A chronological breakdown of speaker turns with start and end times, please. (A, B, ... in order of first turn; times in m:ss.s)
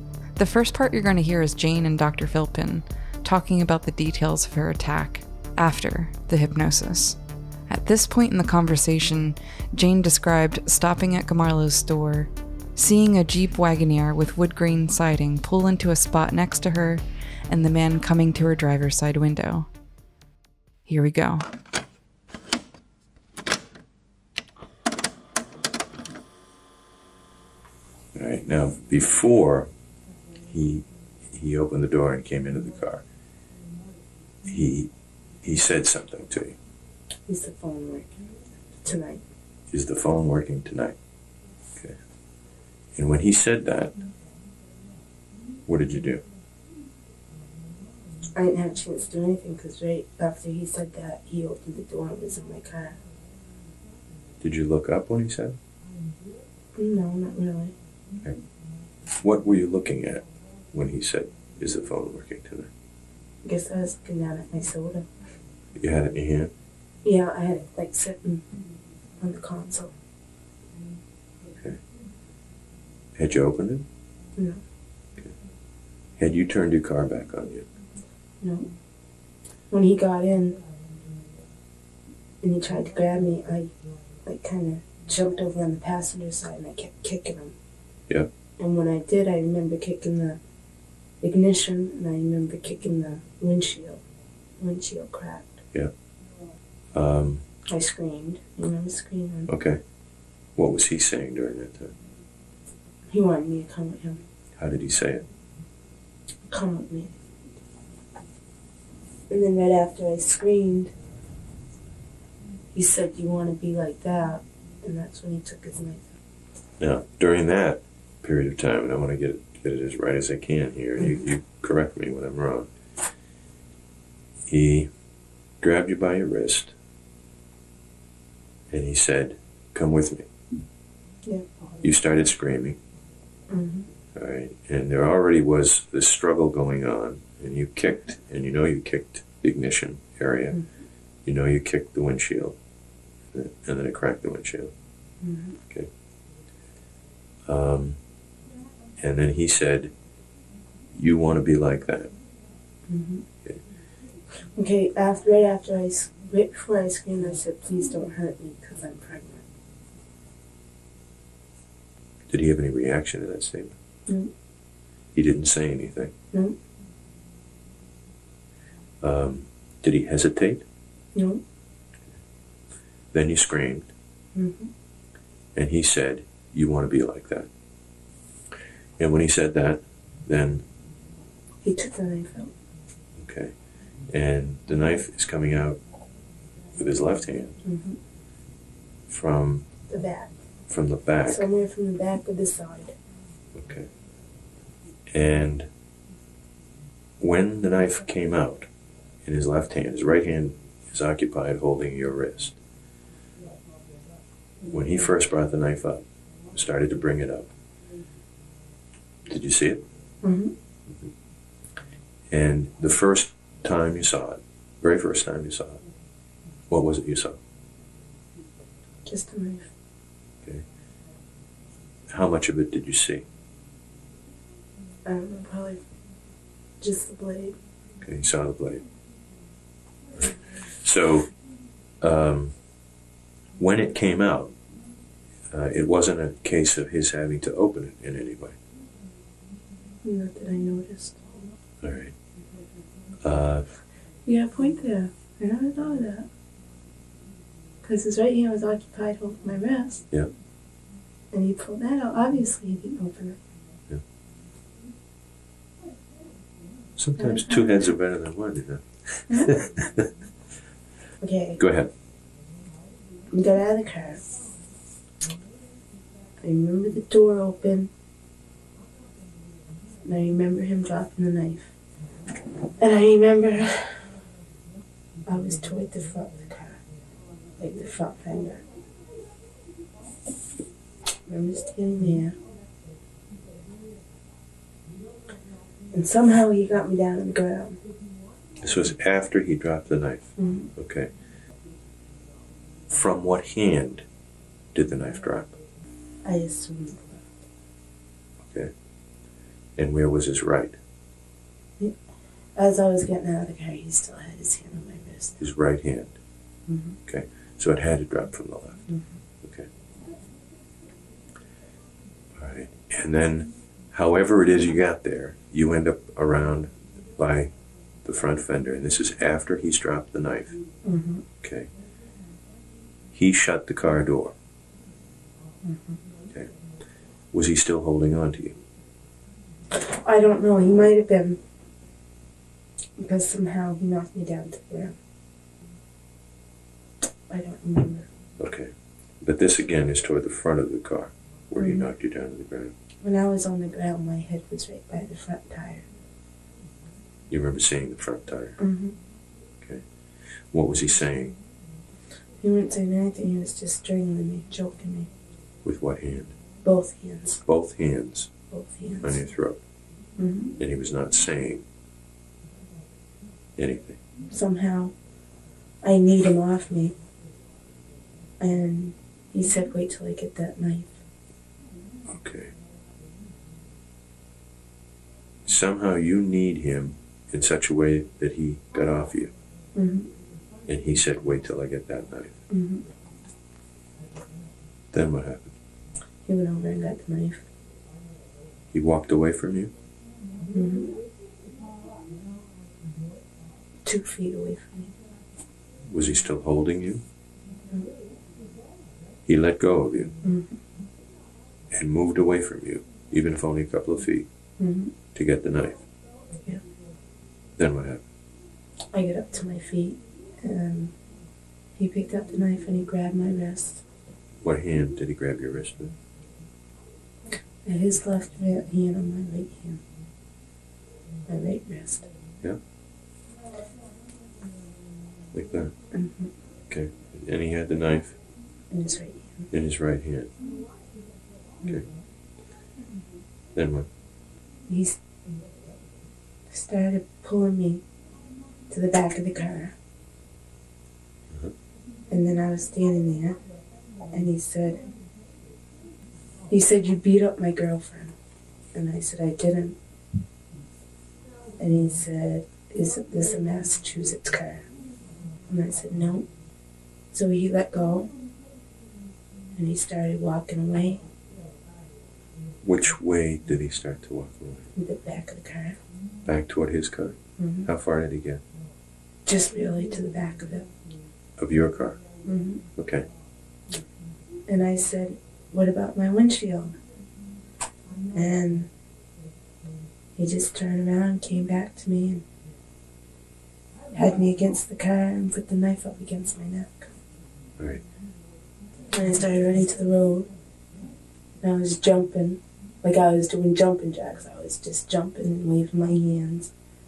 0:00.4-0:19.7 A
0:20.9-0:21.4 A
0:28.1-0:29.7 B
0:30.4-0:33.0 B
0:34.5-0:34.9 B
0:35.4-0:36.6 B
0:37.3-0:38.2 C
0:38.8-0:39.2 C
0:39.7-0:41.0 B
0:42.9-0:44.0 B
0:45.7-0:46.2 B
0:48.4-0:53.0 C
0:54.4-0:55.6 B
0:56.8-0:57.7 C
0:59.2-1:02.7 B
1:03.4-1:05.1 C
1:05.8-1:06.5 B
1:07.0-1:08.6 C
1:09.2-1:09.9 C
1:13.2-1:13.9 B
1:16.2-1:17.7 B
1:18.4-1:18.7 C
1:19.7-1:20.6 C
1:22.4-1:23.7 C
1:24.2-1:27.5 C
1:28.6-1:30.4 C
1:31.2-1:34.0 C
1:34.6-1:35.6 C
1:36.9-1:37.4 B
1:37.7-1:39.5 C
1:39.5-1:39.8 B
1:40.5-1:41.9 B
1:43.1-1:44.2 C
1:44.6-1:45.3 B
1:46.5-1:47.2 C
1:49.3-1:50.9 C
1:52.7-1:56.2 C
1:56.8-2:02.7 B
2:01.0-2:01.2 C
2:04.5-2:04.9 B
2:05.6-2:06.7 B
2:08.7-2:10.3 B
2:11.8-2:12.8 B
2:13.5-2:13.9 C
2:14.1-2:20.6 B
2:21.2-2:22.6 B
2:23.3-2:24.7 B
2:25.2-2:25.6 C
2:27.4-2:28.0 B
2:29.0-2:29.9 B
2:30.9-2:32.1 B
2:32.9-2:33.2 C
2:34.5-2:39.5 C
2:42.3-2:43.8 B
2:44.1-2:44.3 C
2:45.1-2:46.1 B
2:49.0-2:50.6 B
2:51.1-2:51.4 C
2:53.1-2:53.9 B
2:54.3-2:54.7 C
2:55.5-2:57.5 B
2:59.0-3:00.6 B
3:01.6-3:02.5 C
3:03.2-3:03.5 B
3:04.1-3:05.8 B
3:06.8-3:07.6 B
3:07.6-3:08.0 C
3:09.1-3:09.7 B
3:09.9-3:10.3 C
3:10.7-3:11.5 B
3:11.2-3:12.9 C
3:13.5-3:13.9 B
3:15.1-3:15.7 B
3:17.2-3:18.7 B
3:19.2-3:22.6 B
3:24.7-3:27.5 B
3:29.3-3:29.8 B
3:30.2-3:30.5 C
3:32.3-3:35.8 B
3:36.7-3:37.4 B
3:39.0-3:39.7 C
3:42.1-3:43.2 B
3:45.0-3:45.8 C
3:46.8-3:47.6 C
3:48.0-3:48.8 B
3:50.2-3:51.3 B
3:52.0-3:52.5 B
3:53.6-3:54.5 B
3:55.5-3:58.6 B
4:00.0-4:01.2 C
4:01.8-4:02.1 B
4:03.2-4:03.8 B
4:04.2-4:06.3 C
4:07.8-4:10.0 C
4:11.3-4:13.4 C
4:17.0-4:20.1 B
4:17.2-4:17.9 C
4:21.2-4:21.6 C
4:21.6-4:21.9 B
4:23.3-4:24.2 C
4:26.4-4:27.9 C
4:30.0-4:31.7 C
4:32.8-4:34.1 C
4:35.2-4:36.8 C
4:37.6-4:38.6 C
4:41.2-4:42.3 C
4:45.9-4:47.8 C
4:48.6-4:51.1 B
4:50.4-4:50.7 C
4:52.9-4:54.0 B
4:54.7-4:55.6 B
4:56.2-4:57.4 C
4:58.4-4:58.7 B
4:59.8-5:00.8 B
5:02.6-5:05.4 C
5:05.4-5:06.2 B
5:06.7-5:07.0 C
5:07.1-5:08.8 B
5:08.9-5:09.2 C
5:09.4-5:09.7 B
5:12.3-5:17.5 B
5:18.0-5:20.6 B
5:20.8-5:21.2 C
5:21.4-5:21.7 B
5:23.1-5:24.4 B
5:25.6-5:26.0 C
5:27.3-5:28.6 B
5:29.7-5:31.4 C
5:33.0-5:35.0 C
5:37.3-5:38.1 C
5:38.4-5:42.7 B
5:41.5-5:41.9 C
5:43.0-5:45.8 C
5:47.3-5:48.6 B
5:48.6-5:48.9 C
5:49.6-5:51.4 B
5:52.4-5:55.1 C
5:55.6-5:56.4 B
5:56.6-5:57.4 C
5:57.4-5:58.3 B
5:58.5-5:59.2 C
5:59.0-5:59.6 B
6:00.2-6:00.6 C
6:00.6-6:01.6 B
6:03.6-6:04.0 B
6:04.3-6:04.9 C
6:05.8-6:06.9 C
6:08.4-6:11.0 C
6:12.1-6:12.5 B
6:15.4-6:19.3 B
6:19.7-6:20.1 C
6:20.7-6:22.4 B
6:22.5-6:22.8 C
6:24.9-6:25.5 B
6:26.2-6:27.4 C
6:28.7-6:29.7 B
6:30.5-6:31.0 C
6:33.8-6:34.9 C
6:35.9-6:37.0 B
6:39.2-6:40.1 B
6:40.2-6:40.6 C
6:41.7-6:44.3 B
6:44.6-6:44.9 C
6:45.1-6:45.8 B
6:47.6-6:48.0 B
6:48.9-6:50.9 C
6:51.8-6:53.8 C
6:54.4-6:55.9 B
6:57.6-6:59.8 C
7:01.3-7:02.1 C
7:05.3-7:05.7 B
7:05.9-7:06.3 C
7:06.7-7:08.2 B
7:08.7-7:09.5 C
7:09.5-7:10.3 B
7:13.5-7:13.9 B
7:14.7-7:15.0 C
7:16.5-7:17.8 C
7:18.7-7:19.7 C
7:22.1-7:23.4 C
7:24.1-7:24.9 C
7:26.5-7:28.1 C
7:28.7-7:29.8 C
7:31.6-7:34.6 C
7:35.5-7:36.3 C
7:37.1-7:38.1 C
7:39.5-7:41.0 C
7:42.6-7:44.7 B
7:44.8-7:45.8 C
7:46.2-7:48.4 B
7:47.4-7:47.7 C
7:49.2-7:50.7 C
7:51.4-7:52.0 B
7:52.2-7:52.6 C
7:52.7-7:53.1 B
7:54.5-7:56.7 C
7:58.1-7:58.7 C
8:00.2-8:02.2 C
8:03.9-8:06.9 C
8:07.6-8:07.8 B
8:08.9-8:10.3 C
8:11.4-8:16.5 C